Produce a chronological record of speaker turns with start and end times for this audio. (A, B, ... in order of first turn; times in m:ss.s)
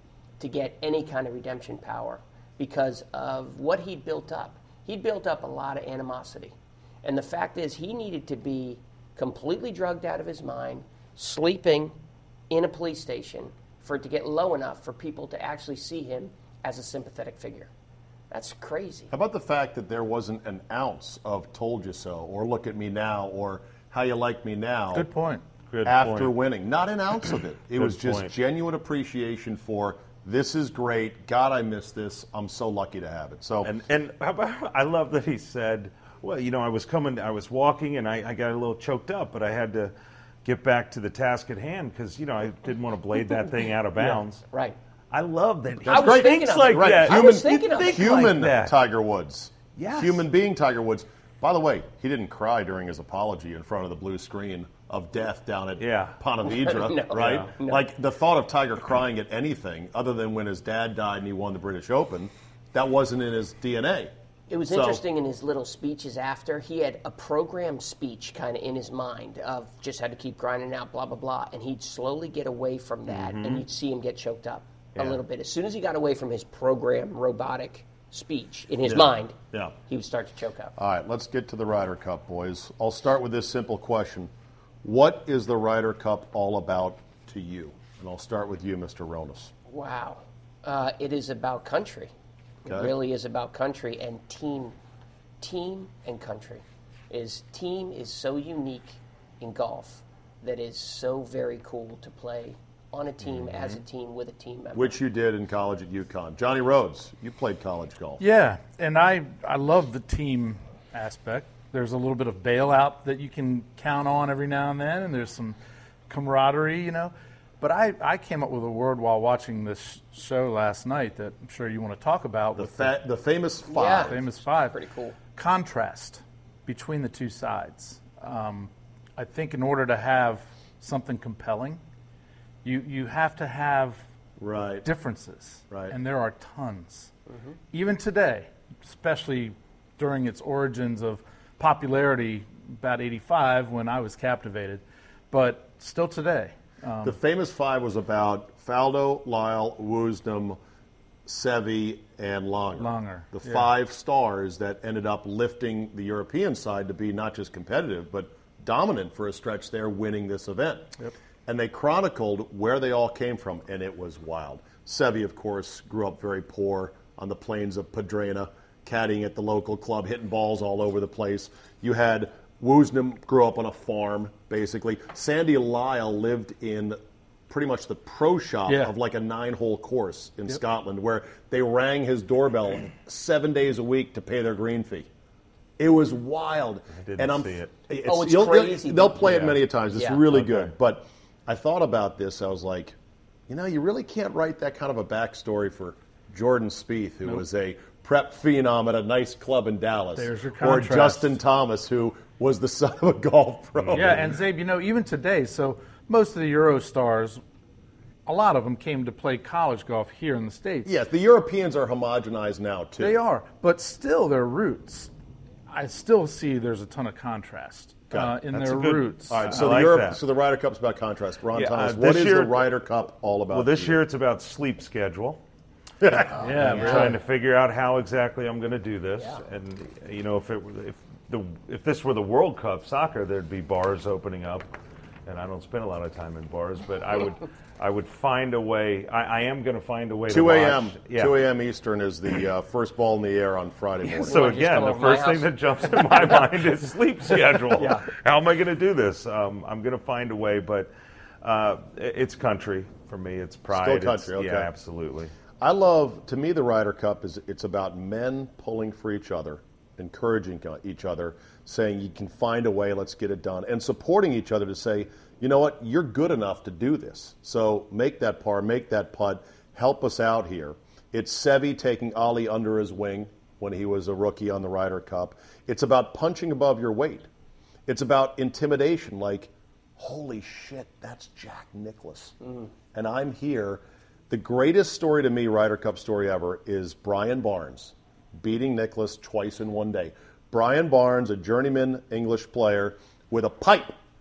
0:00.4-0:11.9 A
0:12.5-0:17.7 A
0:18.3-0:19.1 A
0:19.1-0:25.1 B
0:24.9-0:25.4 C
0:25.7-0:26.3 D
0:25.8-0:33.7 B
0:27.8-0:28.3 D
0:33.6-0:39.9 D
0:40.4-0:44.4 D
0:44.0-0:44.8 A
0:45.1-0:48.8 D
0:45.8-1:04.1 B
0:45.9-0:48.3 A
0:49.8-0:50.2 D
0:55.8-0:56.2 D
0:56.5-0:57.8 A
0:57.1-0:57.5 D
1:04.5-1:20.7 A
1:04.6-1:05.0 B
1:13.1-1:13.6 D
1:18.8-1:19.8 B
1:20.8-1:24.3 B
1:24.8-1:29.5 B
1:29.7-1:32.1 A
1:32.6-1:34.8 A
1:32.7-1:32.9 B
1:35.4-1:45.0 A
1:43.3-1:43.8 D
1:44.7-1:48.2 B
1:48.2-1:55.6 C
1:56.1-2:03.0 C
2:02.6-2:04.2 B
2:03.7-2:05.2 A
2:04.0-2:04.8 C
2:05.4-2:11.8 C
2:12.6-2:14.0 C
2:14.4-2:14.9 B
2:14.8-2:17.1 C
2:17.7-2:27.2 C
2:27.0-2:30.6 B
2:31.3-2:40.9 B
2:32.8-2:33.7 C
2:41.5-3:05.1 B
2:58.7-2:58.9 C
3:05.8-3:13.0 B
3:07.0-3:07.7 D
3:08.0-3:10.3 A
3:10.3-3:10.7 D
3:13.5-3:24.2 B
3:20.2-3:21.4 C
3:23.8-3:24.3 D
3:23.9-3:27.4 C
3:28.3-3:31.0 C
3:30.8-3:33.2 B
3:33.0-3:35.1 C
3:35.7-3:39.7 C
3:38.1-3:38.4 B
3:38.5-3:40.2 D
3:39.3-3:44.0 B
3:41.5-3:42.7 D
3:43.5-3:45.4 D
3:46.0-3:47.1 B
3:46.3-3:47.2 C
3:46.5-3:54.7 D
3:55.3-4:01.4 D
4:00.3-4:04.5 B
4:04.1-4:10.9 D
4:04.2-4:06.3 A
4:07.7-4:08.1 A
4:11.4-4:15.3 D
4:13.7-4:14.7 B
4:15.6-4:37.3 B
4:37.9-4:42.4 B
4:42.9-4:54.0 B